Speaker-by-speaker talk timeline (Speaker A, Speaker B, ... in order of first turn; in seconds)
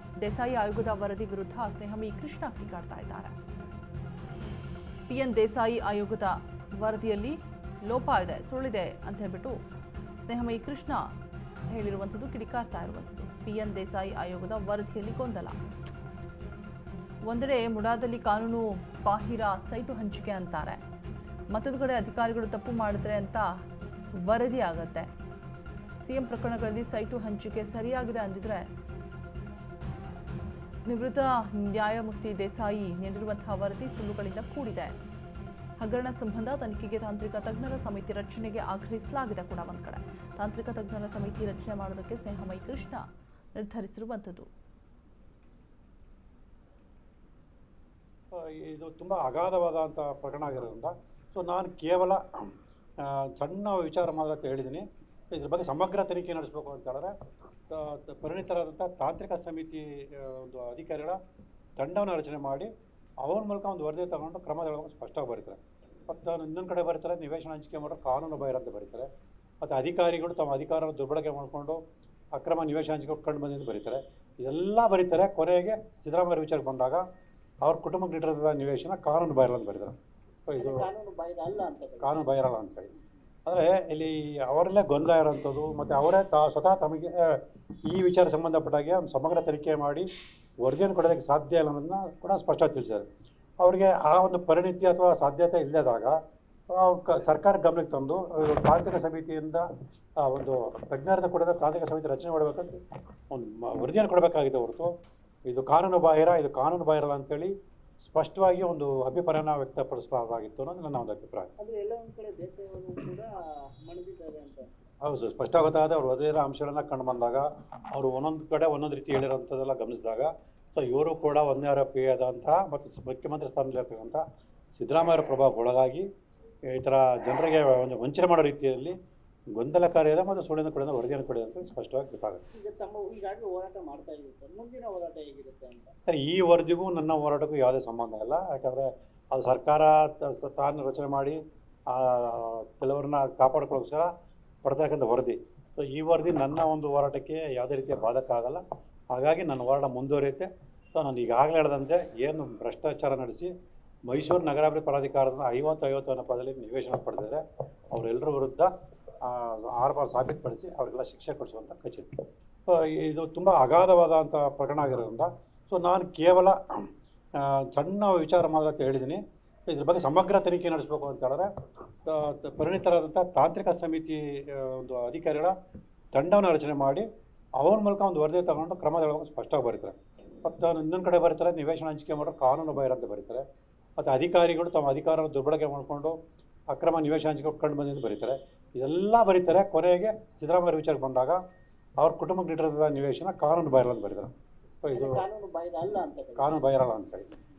Speaker A: 0.2-3.4, 5.1-9.6, 10.2-11.1, 11.7-15.6, 17.2-20.8, 21.5-23.6, 24.2-25.1, 26.0-28.7, 30.9-35.0, 35.8-44.5
Speaker B: 48.3-57.1, 57.7-61.2, 61.8-62.7, 63.2-69.1, 69.6-71.8, 72.3-77.0, 77.6-80.0, 80.5-80.9, 82.0-82.9, 83.5-90.1, 90.6-93.1, 93.6-96.2, 96.7-99.7, 100.2-104.9, 105.5-111.5, 115.0-124.2, 124.8-126.1, 126.7-129.0, 129.5-132.4, 136.1-141.4, 141.9-144.1, 144.6-153.5, 154.1-157.4, 157.9-166.8, 167.3-171.5, 172.1-175.5, 176.1-177.1, 177.6-183.4, 184.0-186.2, 186.7-191.4, 192.0-194.3, 194.8-195.2, 196.4-197.3
Speaker C: 80.6-82.2, 111.6-113.3, 113.8-114.9, 132.5-135.9, 194.9-196.6